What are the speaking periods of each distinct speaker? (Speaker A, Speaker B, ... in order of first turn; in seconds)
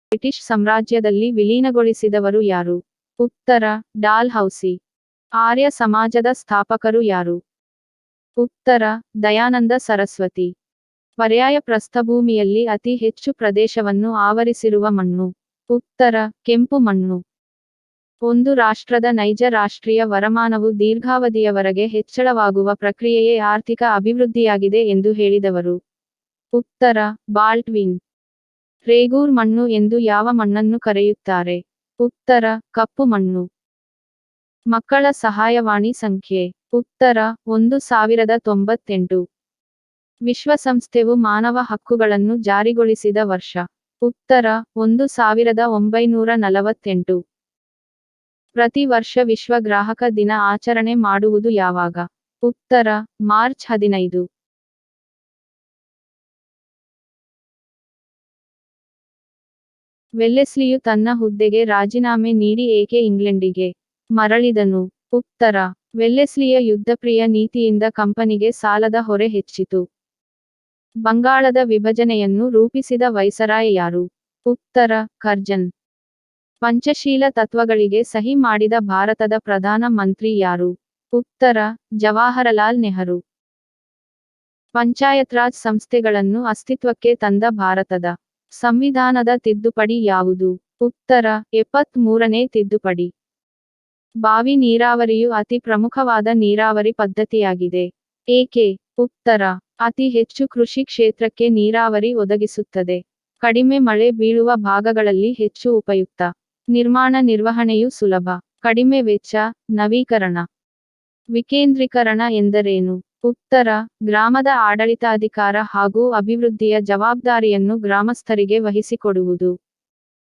Speaker A: 0.1-4.7, 5.4-7.4, 8.4-10.5, 11.2-17.2, 18.2-25.8, 26.5-28.0, 28.9-33.4, 34.7-39.2, 40.3-47.2, 48.6-54.2, 60.2-69.8, 71.0-75.7, 76.6-83.2, 84.8-93.1, 94.2-110.4, 111.3-119.5